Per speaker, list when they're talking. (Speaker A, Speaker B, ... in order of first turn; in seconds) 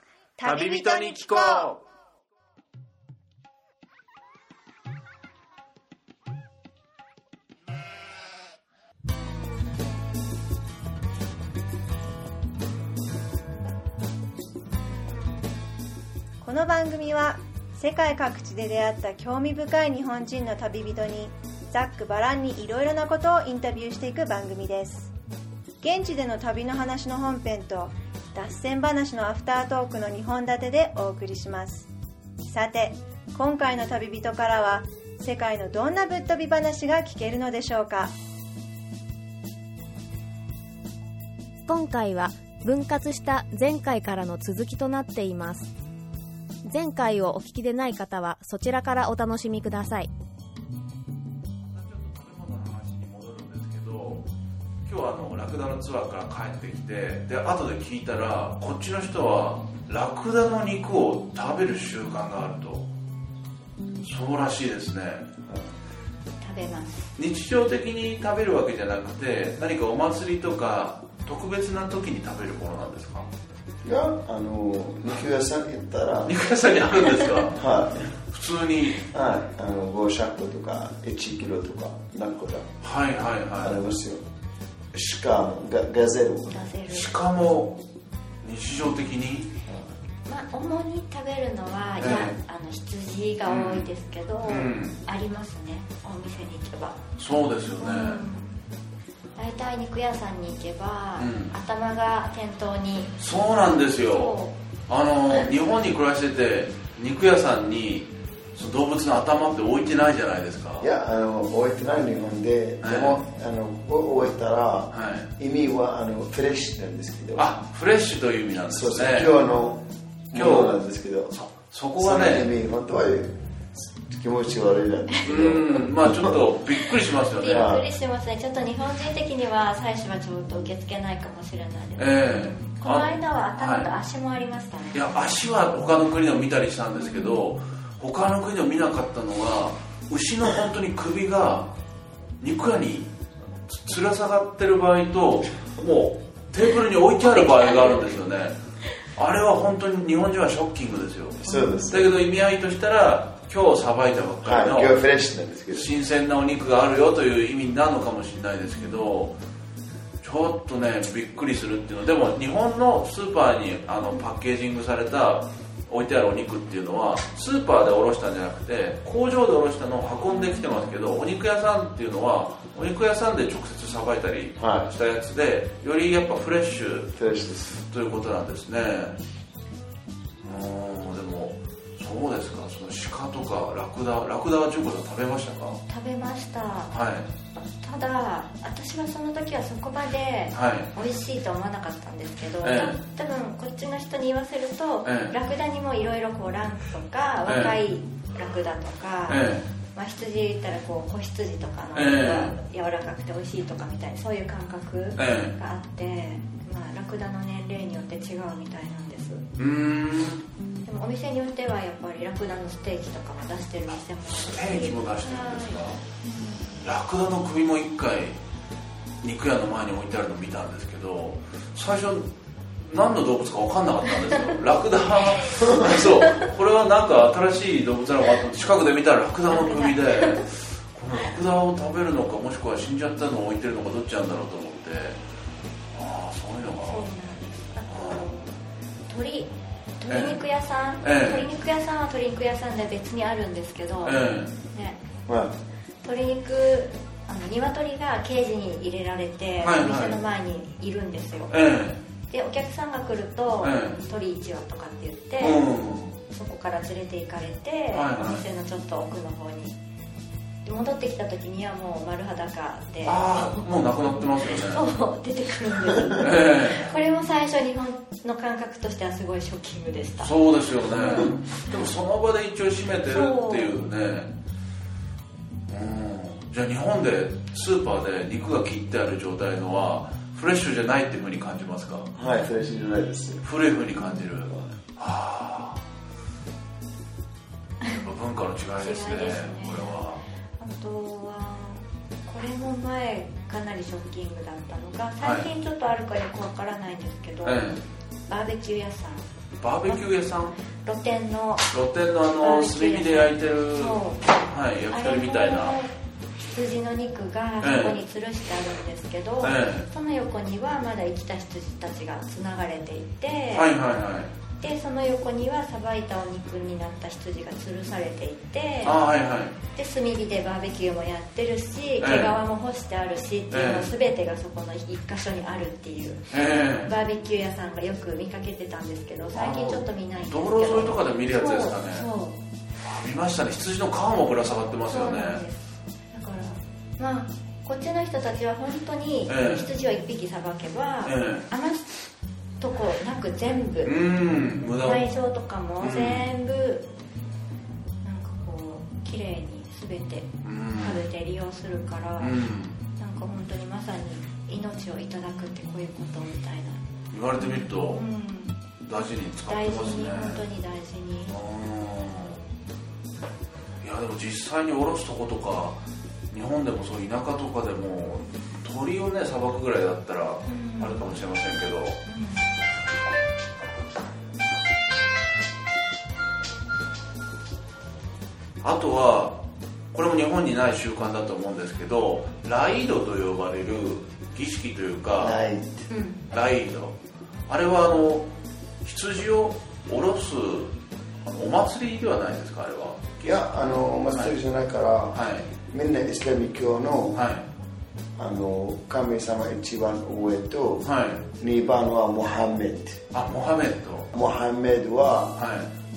Speaker A: 0.4-1.7, 16.4-25.1, 25.8-31.9, 32.4-38.1
Speaker B: 0.4-1.8, 51.7-54.2, 54.9-62.8, 64.0-65.2, 67.2-73.3, 76.2-77.6, 78.3-79.0, 82.8-83.8, 86.9-87.8, 88.4-89.5, 92.0-92.3, 93.5-93.8, 94.5-95.0, 97.2-98.2, 101.2-101.5, 103.2-104.3, 104.9-110.9, 112.8-113.2, 114.9-115.3, 117.3-119.4, 120.3-120.8, 121.3-122.5, 125.2-127.7, 132.0-133.9, 134.9-141.7, 142.4-143.1, 143.7-148.6, 149.1-155.0, 155.7-159.3, 160.2-177.1, 177.8-179.2, 180.4-185.8, 186.9-187.3, 190.5-190.9, 192.6-193.0, 195.1-195.3, 197.5-197.7, 199.3-199.7, 201.9-202.6, 205.2-205.6, 209.6-210.4, 214.3-216.0, 216.8-218.4, 219.2-222.3, 222.8-235.2, 235.9-237.1, 237.9-238.3, 240.1-240.4, 241.0-241.5, 244.0-244.5, 249.6-250.2, 251.5-252.0, 253.6-254.0, 255.4-256.2, 257.9-258.4, 263.0-264.9, 266.2-266.9, 270.2-274.3, 275.7-282.1, 283.4-285.8, 287.9-290.2, 295.2-295.5, 297.4-297.8, 299.6-300.6, 301.7-305.8, 307.6-308.0, 309.4-309.9, 313.5-314.3, 318.8-319.6, 322.0-322.4, 323.5-323.9, 326.3-326.9, 329.3-332.1, 332.8-335.4, 339.3-339.7, 341.0-341.4, 343.8-345.1, 345.8-346.2, 350.4-351.0, 352.2-352.8, 357.1-358.0, 358.8-360.4, 361.3-362.4, 363.8-365.8, 366.3-372.0, 378.6-379.4, 379.9-385.4, 386.3-386.9, 387.5-388.3, 388.8-390.7, 391.2-394.3, 395.1-395.5, 397.1-397.4, 400.8-401.2, 403.1-404.1, 405.4-405.7
Speaker C: 41.7-45.7, 46.6-50.1
Speaker D: 66.4-67.1, 77.1-77.4, 86.5-87.1, 90.2-97.0, 97.8-98.5, 99.3-103.2, 103.8-104.5, 127.4-135.1, 137.0-137.4, 147.3-148.0, 151.4-151.9, 170.3-170.8, 185.9-186.9, 187.6-199.4, 199.9-209.4, 210.8-216.8, 229.5-230.4, 236.8-238.5, 239.1-244.2, 244.7-245.0, 246.0-251.5, 252.3-255.6, 256.3-259.8, 260.6-270.3, 270.9-271.7, 273.1-273.8, 284.0-284.2, 288.8-290.0, 290.6-297.6, 298.3-299.2, 300.7-301.7, 302.4-304.4, 304.9-305.9, 306.5-313.7, 314.6-319.0, 319.7-332.4, 334.9-342.1, 342.6-343.9, 344.6-346.9, 348.0-352.3, 353.0-356.8, 357.4-358.6, 359.5-361.3, 370.5-371.1, 372.1-372.4, 385.9-386.2
Speaker E: 73.8-76.3, 77.5-78.1, 79.1-82.7, 83.6-84.2, 84.9-86.5, 110.8-117.5, 118.7-121.3, 122.0-126.4, 127.5-127.8, 151.4-152.1, 154.4-155.9, 174.6-174.9, 177.2-177.8, 245.3-245.5, 282.1-283.4, 284.5-284.7, 385.2-385.9, 393.2-397.2, 398.2-400.9, 401.4-403.0, 404.1-405.4